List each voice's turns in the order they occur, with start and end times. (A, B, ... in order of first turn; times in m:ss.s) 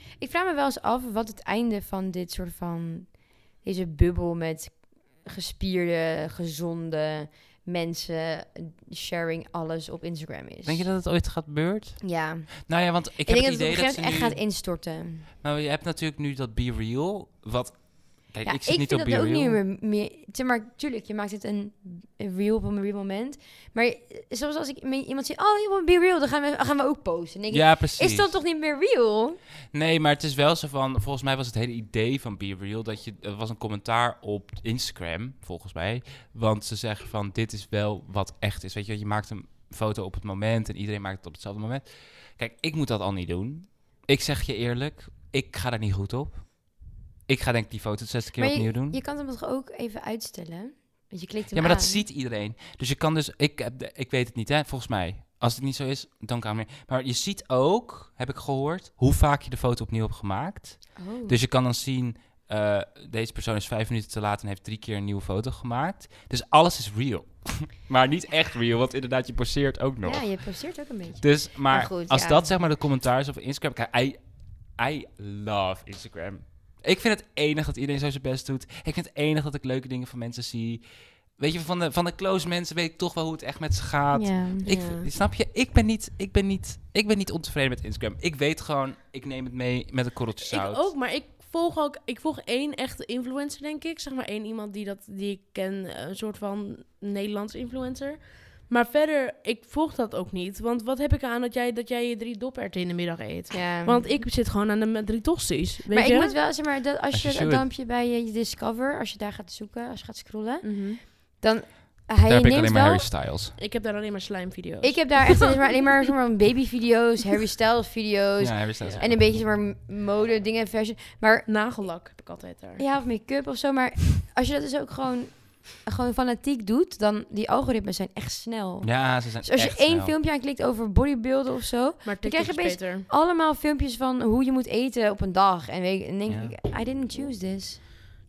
0:00.2-0:10.9 A
0:10.6-0:14.6 B
0:12.0-0:15.3 A
0:15.4-0:19.6 B
0:18.4-0:29.4 A
0:27.5-0:28.4 B
0:29.7-0:49.0 B
0:48.4-0:52.0 A
0:51.5-1:30.9 B
1:01.0-1:01.4 A
1:10.0-1:12.5 A
1:24.1-1:24.7 A
1:24.6-1:25.1 C
1:30.4-1:46.4 C
1:43.5-1:44.2 A
1:45.9-1:53.1 A
1:47.1-1:47.7 B
1:50.6-1:51.0 C
1:52.2-1:53.6 B
1:53.6-1:55.6 C
1:54.8-2:01.5 A
1:58.4-1:59.4 B
2:01.5-2:02.8 C
2:02.8-2:17.8 A
2:08.8-2:10.2 B
2:12.0-2:13.1 C
2:16.3-2:16.6 B